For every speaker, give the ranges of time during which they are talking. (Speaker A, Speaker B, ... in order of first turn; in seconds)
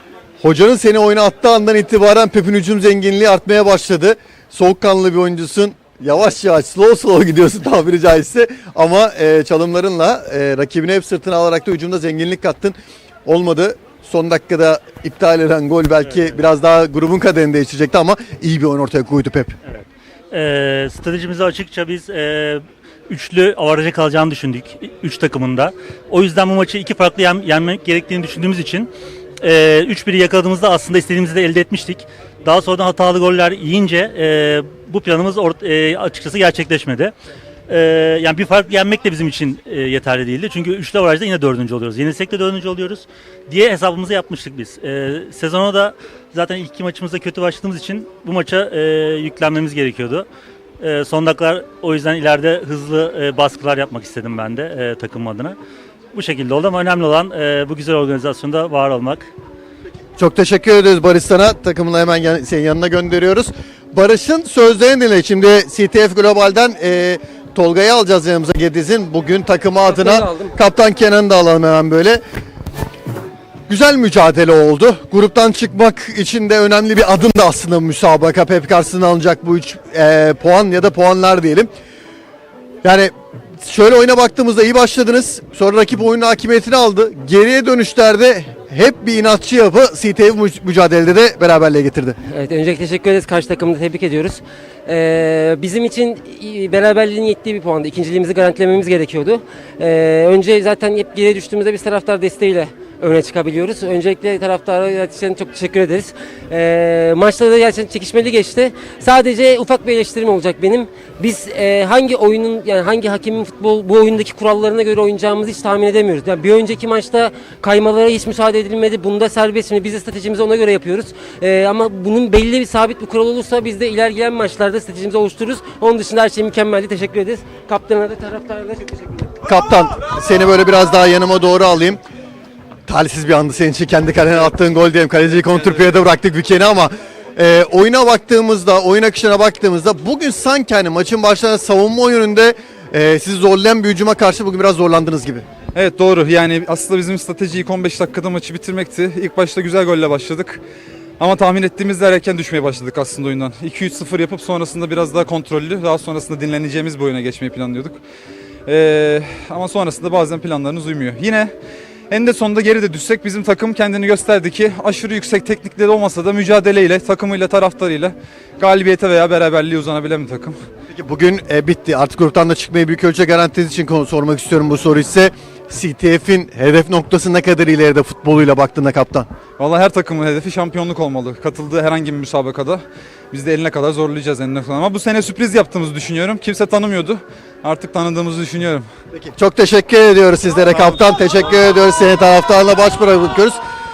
Speaker A: 0.4-19.6, 60.2-72.2, 73.7-81.7, 82.8-92.2, 129.4-132.0, 132.8-145.4, 170.9-179.3, 189.1-193.6
Speaker B: 19.7-37.1, 37.7-50.3, 50.8-55.6, 56.1-59.3
Speaker C: 69.8-70.5, 92.2-129.3
Speaker D: 145.7-150.6, 151.2-158.0, 158.7-161.5, 162.1-170.6, 179.6-188.9